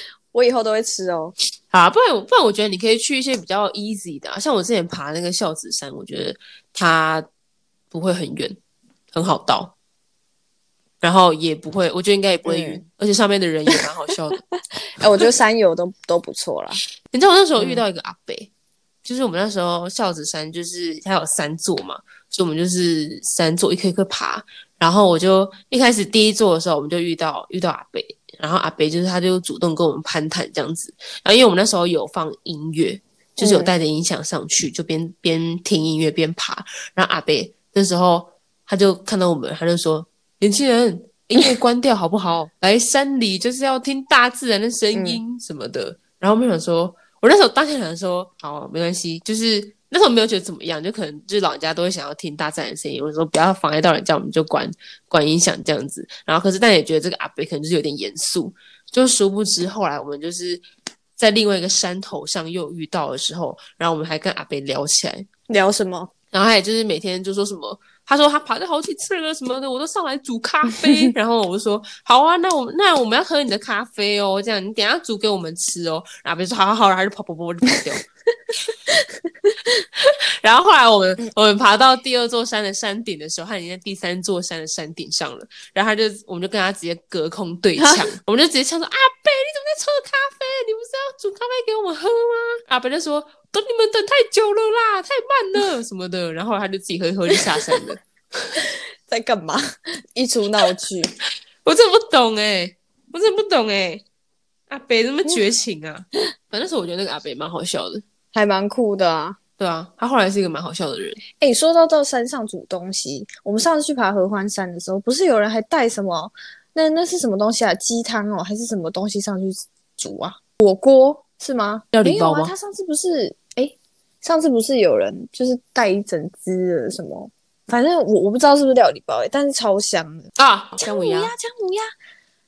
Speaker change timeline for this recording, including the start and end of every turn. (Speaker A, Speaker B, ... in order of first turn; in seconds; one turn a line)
Speaker A: 0.3-1.3
Speaker B: 1.7-7.2
Speaker B: 7.9-8.6
Speaker B: 9.1-9.7
Speaker B: 11.0-14.4
Speaker A: 12.4-12.8
Speaker A: 14.9-16.8
Speaker B: 17.1-18.5
Speaker A: 17.6-17.8
Speaker B: 19.0-60.6
Speaker A: 33.4-33.7
Speaker A: 44.9-45.2
Speaker B: 61.2-65.3
Speaker A: 65.5-66.1
Speaker B: 66.3-78.0
Speaker A: 78.9-79.8
Speaker B: 80.0-98.0
Speaker A: 98.6-99.6
Speaker A: 100.1-101.1
Speaker B: 101.6-104.0
Speaker B: 104.7-108.0
Speaker A: 108.3-109.4
Speaker B: 109.6-111.2
Speaker A: 111.4-130.3
Speaker B: 121.9-122.5
Speaker B: 130.4-131.3
Speaker A: 130.8-131.9